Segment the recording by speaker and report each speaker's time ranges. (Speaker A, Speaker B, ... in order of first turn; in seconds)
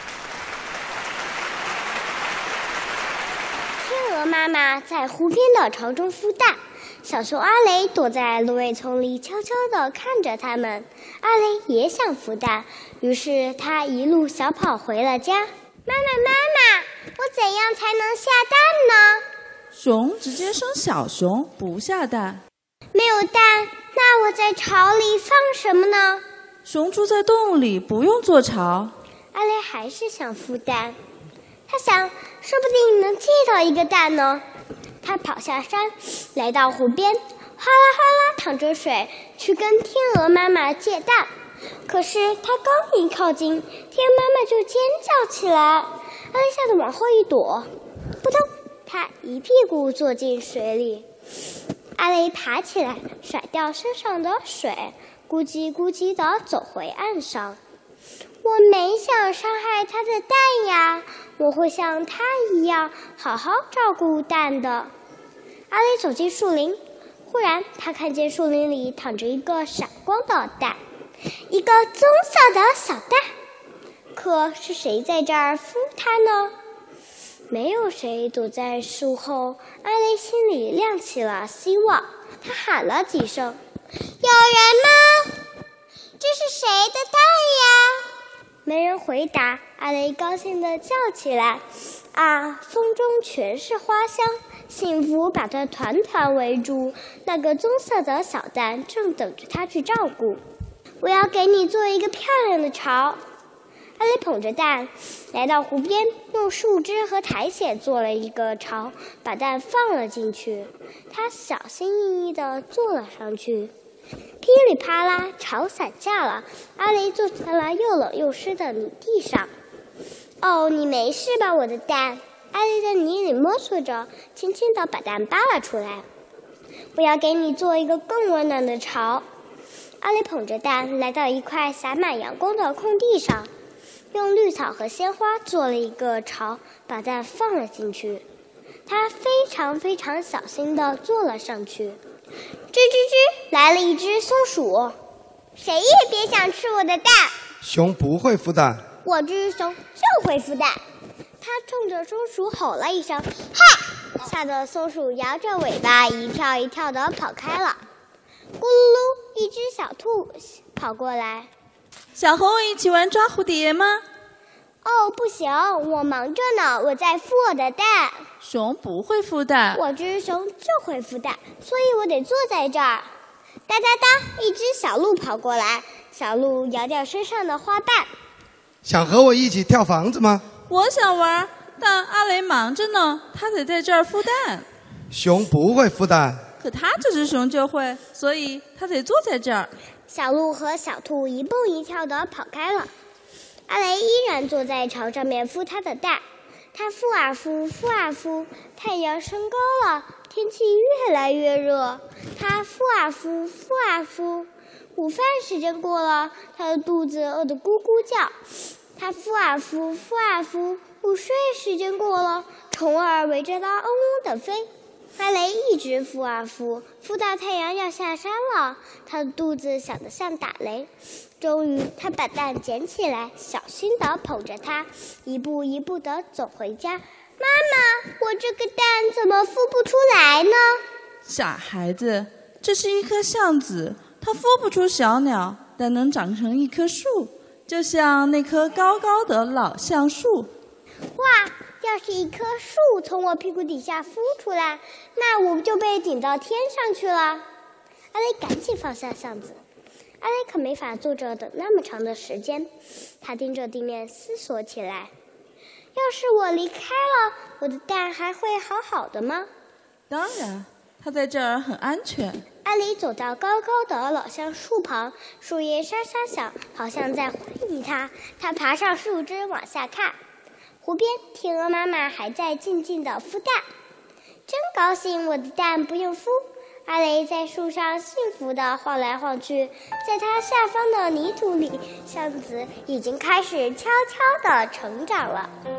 Speaker A: 3.8-19.2, 22.9-26.2, 29.3-31.0, 31.7-34.4, 35.0-41.3, 41.9-47.7, 48.2-51.1, 52.0-57.6, 58.4-64.9, 65.7-70.8, 71.5-73.3, 74.1-76.5, 77.5-83.6, 84.2-85.4, 86.2-88.1, 88.7-100.4, 101.0-103.2, 104.0-113.7, 114.4-119.5, 120.4-126.0, 127.0-129.2, 130.0-133.5, 134.1-138.2, 138.9-142.0, 142.7-145.0, 145.6-147.4, 149.0-150.8, 151.4-157.8, 158.6-161.5, 164.8-168.3, 169.7-173.1, 173.7-178.1, 190.1-192.9, 193.7-196.2, 196.8-208.3, 209.0-220.9, 221.4-230.8, 241.2-247.4, 248.1-249.6, 250.2-252.7, 253.2-255.1, 256.0-259.5, 262.6-270.2, 270.8-273.6, 274.5-285.5
Speaker B: 19.7-22.4, 26.6-28.9, 162.2-164.0, 168.4-169.8, 180.7-184.7, 186.6-189.7, 231.3-240.5, 260.1-262.4
Speaker C: 147.6-148.8, 178.8-180.4, 185.1-186.4